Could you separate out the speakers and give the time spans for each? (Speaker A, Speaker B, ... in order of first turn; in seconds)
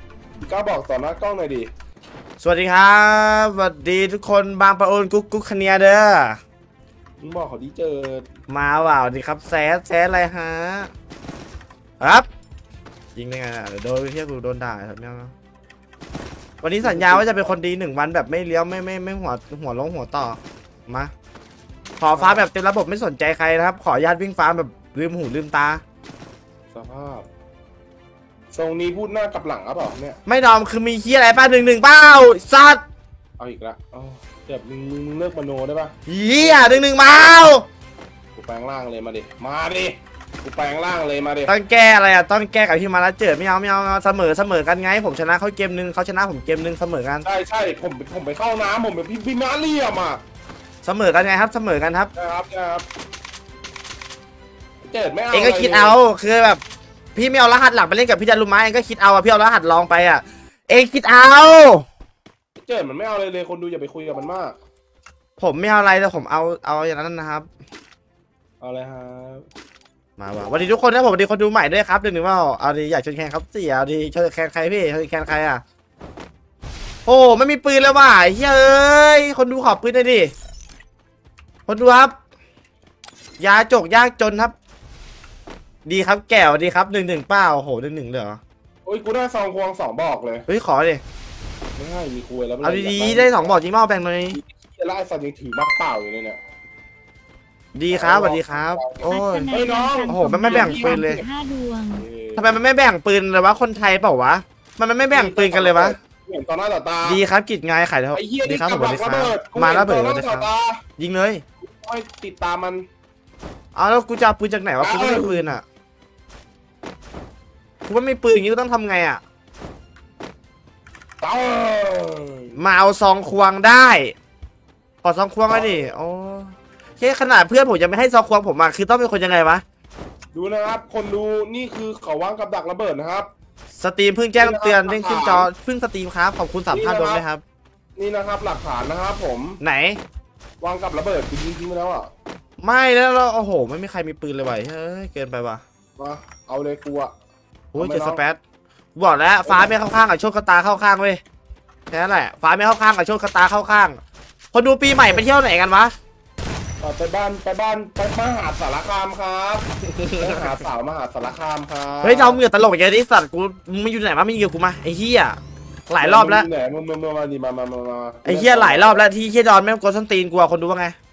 Speaker A: 0.4-1.7, 7.2-8.3, 16.8-17.6, 22.1-22.5, 26.7-27.3, 28.5-30.2, 33.4-37.0, 38.4-41.5, 47.2-50.2, 52.2-52.9, 54.8-56.0, 62.6-64.6, 68.6-69.5, 88.9-90.5, 91.8-93.6, 94.3-96.4, 97.9-101.2, 102.0-102.5, 105.1-107.2, 108.1-110.8, 111.8-112.8, 114.8-115.6, 121.2-122.5, 125.5-125.9, 130.3-133.3, 134.3-135.5, 136.7-137.2, 138.0-139.6, 140.6-142.1, 146.0-147.1, 147.8-148.2, 149.5-149.7, 156.8-159.7, 160.2-162.4, 166.0-169.1
Speaker B: 2.4-6.4, 8.5-10.9, 12.0-12.3, 13.2-15.3, 16.6-21.1, 22.0-25.8, 30.3-32.8, 36.1-37.7, 41.5-47.3, 50.8-52.1, 55.3-56.6, 57.1-61.9, 65.4-67.5, 70.2-75.6, 77.1-80.3, 81.7-82.2, 83.4-84.5, 85.8-88.4, 90.5-91.0, 92.6-94.4, 97.7-99.5, 100.1-101.2, 102.4-106.0, 107.0-111.4, 113.8-115.6, 117.9-119.2, 122.6-124.1, 125.0-129.6, 133.8-137.4, 139.6-140.0, 142.6-145.6, 147.7-148.4, 149.0-151.2, 151.9-154.0, 154.5-155.9, 159.9-160.5, 162.0-166.5, 168.2-170.9
Speaker C: 99.0-102.1